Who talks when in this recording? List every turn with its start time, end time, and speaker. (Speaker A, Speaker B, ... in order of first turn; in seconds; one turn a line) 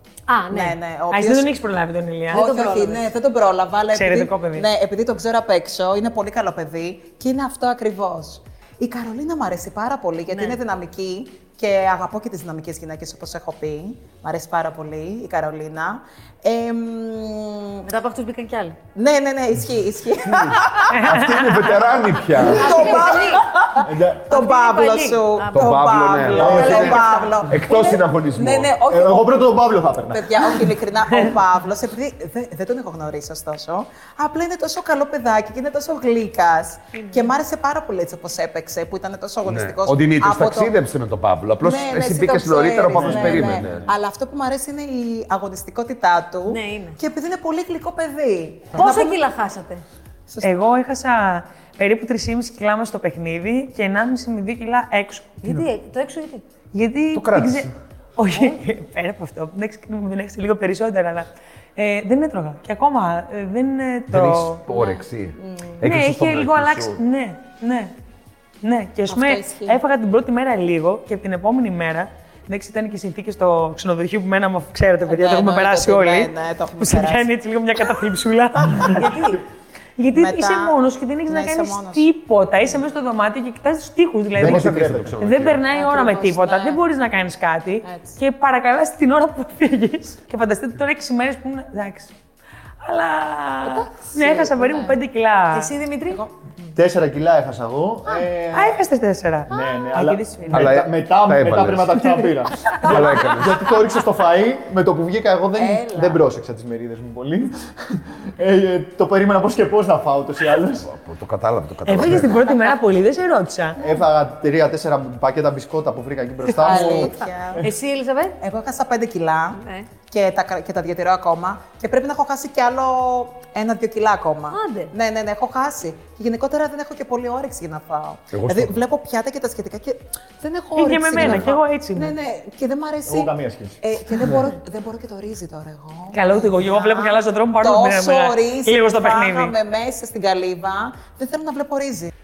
Speaker A: 0.3-0.8
Speaker B: 0.5-1.5
Speaker C: 1.1-2.5
Speaker A: 2.3-3.1
Speaker B: 2.3-17.9
Speaker C: 3.9-4.7
Speaker A: 10.3-10.6
Speaker A: 17.8-18.8
Speaker B: 18.9-21.1
Speaker C: 20.9-21.6
Speaker D: 21.0-23.0
Speaker B: 22.3-29.5
Speaker A: 22.5-23.5
Speaker E: 23.8-24.3
Speaker A: 24.3-25.8
Speaker D: 25.5-28.7
Speaker E: 26.3-27.1
Speaker A: 26.5-27.3
Speaker E: 28.9-30.7
Speaker B: 30.1-40.7
Speaker A: 36.9-37.3
Speaker D: 39.4-43.8
Speaker B: 41.6-49.2
Speaker E: 42.9-43.9
Speaker A: 46.5-47.0
Speaker A: 48.7-49.8
Speaker B: 50.3-50.5
Speaker C: 50.4-55.4
Speaker A: 55.4-56.4
Speaker C: 56.7-64.6
Speaker D: 57.1-57.7
Speaker D: 64.1-67.0
Speaker A: 64.7-65.0
Speaker B: 65.4-65.8
Speaker C: 65.8-67.9
Speaker C: 68.6-79.4
Speaker B: 69.1-69.8
Speaker B: 75.0-77.3
Speaker B: 78.8-79.3
Speaker C: 80.0-92.1
Speaker B: 80.1-80.8
Speaker B: 81.3-82.1
Speaker E: 84.3-85.1
Speaker D: 84.3-85.6
Speaker B: 85.7-86.8
Speaker B: 87.8-88.2
Speaker C: 92.8-95.7
Speaker B: 93.7-94.9
Speaker A: 95.5-96.2
Speaker B: 96.1-96.7
Speaker E: 96.7-98.8
Speaker C: 98.5-100.7
Speaker E: 99.5-110.9
Speaker D: 100.5-103.6
Speaker B: 105.5-106.2
Speaker D: 110.8-112.5
Speaker C: 111.8-113.8
Speaker E: 113.8-117.2
Speaker B: 116.6-117.7
Speaker A: 116.6-118.4
Speaker B: 118.4-142.1
Speaker A: 119.6-119.9
Speaker A: 124.5-124.9
Speaker D: 128.3-128.8
Speaker C: 130.7-132.1
Speaker E: 133.1-133.8
Speaker C: 136.1-139.5